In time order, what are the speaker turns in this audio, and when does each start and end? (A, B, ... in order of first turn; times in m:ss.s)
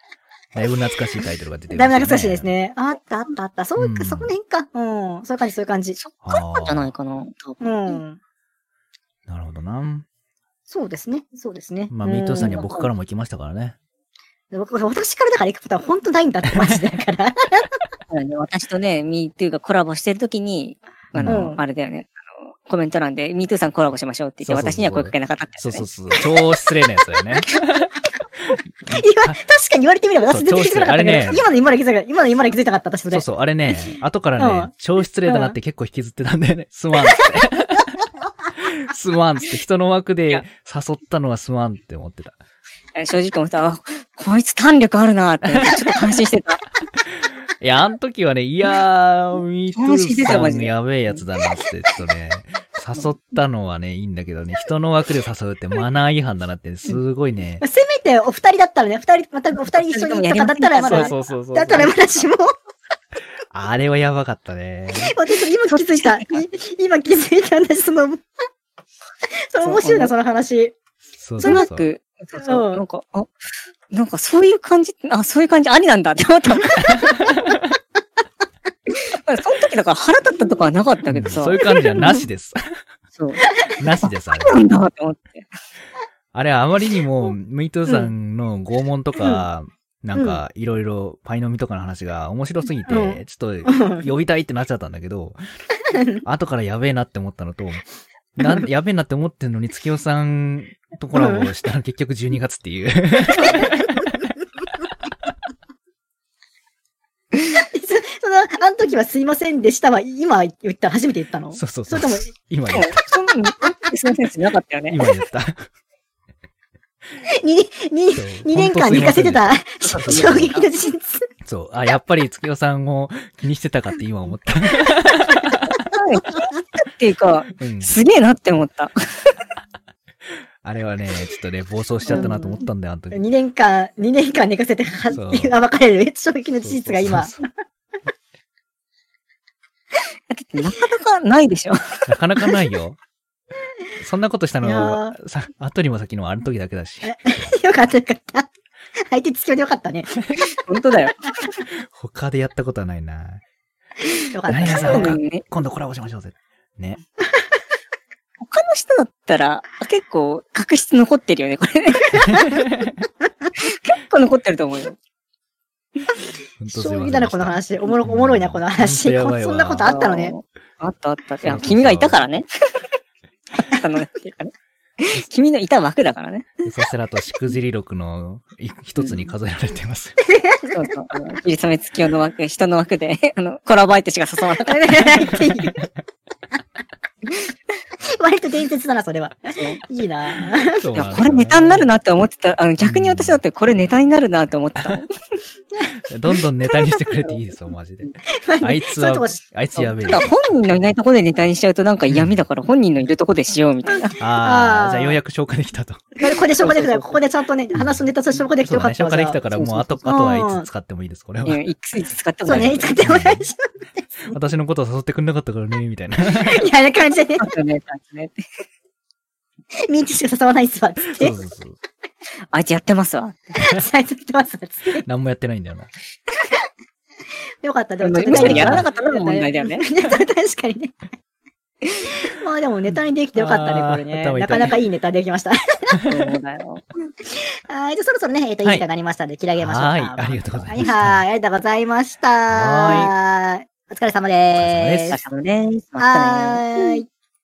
0:00.5-0:02.5 A
0:01.7-0:06.0 B
0:03.8-0:04.3 A
0:05.9-0:08.0 C
0:06.2-0:06.9 A
0:07.6-0:08.2 B
0:09.3-0:10.0 A
0:10.7-0:12.9 B
0:11.9-0:13.8 A
0:14.5-0:17.7 B
0:18.1-0:25.9 C
0:21.1-0:21.5 A
0:21.2-0:21.6 B
0:24.4-0:27.9 A
0:28.9-0:33.2 B
0:28.9-0:29.4 A
0:30.2-0:31.4 A
0:33.1-0:38.0 A
0:34.4-0:34.7 B
0:35.2-0:35.6 B
0:38.6-0:42.4 A
0:42.9-0:46.6 C
0:45.6-0:46.1 A
0:47.6-0:57.6 A
0:49.7-0:51.2 C
0:57.6-1:02.5 B
0:59.7-1:01.1 C
1:00.8-1:01.9 A
1:03.5-1:05.1 A
1:04.9-1:08.2 B
1:05.7-1:06.4 C
1:09.5-1:10.7 B
1:09.6-1:10.1 C
1:11.2-1:11.9 A
1:11.4-1:11.6 B
1:11.4-1:13.3 C
1:12.4-1:12.8 B
1:13.9-1:17.2 C
1:16.9-1:17.7 A
1:18.9-1:22.2 C
1:21.1-1:22.6 A
1:23.1-1:23.5 C
1:23.8-1:24.6 A
1:24.0-1:25.5 C
1:26.3-1:35.4 A
1:27.9-1:28.1 B
1:29.2-1:29.4 B
1:30.1-1:30.4 B
1:32.9-1:34.1 B
1:35.9-1:36.2 B
1:36.2-1:37.8 A
1:38.4-1:44.2 A
1:38.4-1:38.7 B
1:41.1-1:41.5 B
1:43.4-1:44.0 B
1:47.4-1:52.3 B
1:51.5-1:53.0 A
1:52.7-1:55.0 C
1:54.9-1:55.6 A
1:57.2-2:01.3 B
1:58.1-2:00.6 A
1:59.8-2:00.7 C
2:01.4-2:05.6 A
2:05.8-2:09.2 C
2:07.6-2:07.9 A
2:10.6-2:13.2 A
2:12.0-2:17.3 B
2:12.1-2:12.4 C
2:15.1-2:15.6 A
2:16.6-2:17.4 A
2:20.3-2:22.0 C
2:22.1-2:23.0 A
2:24.0-2:27.6 A
2:24.6-2:25.2 B
2:27.0-2:30.4 B
2:30.7-2:31.5 C
2:31.8-2:33.4 A
2:34.3-2:35.1 B
2:34.5-2:37.0 A
2:34.6-2:35.4 C
2:38.4-2:42.5 C
2:42.2-2:43.0 A
2:43.6-2:45.0 C
2:46.6-2:49.9 A
2:46.7-2:50.4 B
2:49.8-2:52.5 C
2:51.4-2:52.2 A
2:53.6-2:56.5 C
2:56.6-3:00.1 A
2:59.0-2:59.3 C
3:00.2-3:01.0 B
3:00.7-3:05.3 C
3:04.6-3:05.8 B
3:08.2-3:10.8 B
3:09.5-3:09.8 C
3:10.8-3:11.9 A
3:10.9-3:15.1 C
3:12.8-3:13.4 A
3:16.1-3:18.1 A
3:18.4-3:19.4 B
3:18.6-3:20.8 A
3:19.8-3:24.2 C
3:22.1-3:22.4 A
3:23.9-3:25.2 B
3:24.2-3:26.2 A
3:26.2-3:29.4 B
3:26.5-3:27.2 C
3:27.8-3:28.0 A
3:28.6-3:31.6 A
3:29.5-3:30.1 C
3:30.0-3:30.7 B
3:31.4-3:33.0 C
3:32.4-3:33.5 A
3:32.4-3:33.6 B
3:34.3-3:36.7 A
3:36.3-3:37.5 B
3:37.4-3:38.4 C
3:39.9-3:41.4 B
3:41.0-3:41.8 A
3:42.5-3:43.5 C
3:43.5-3:45.0 B
3:45.0-3:45.9 A
3:47.6-3:51.0 B
3:48.0-3:49.8 C
3:48.3-3:48.9 A
3:52.2-3:56.0 B
3:53.3-3:54.8 A
3:56.0-3:56.8 C
3:57.2-4:05.2 B
3:59.6-4:01.2 A
4:02.5-4:03.1 A
4:04.5-4:05.2 A
4:05.1-4:06.9 C
4:06.0-4:07.0 B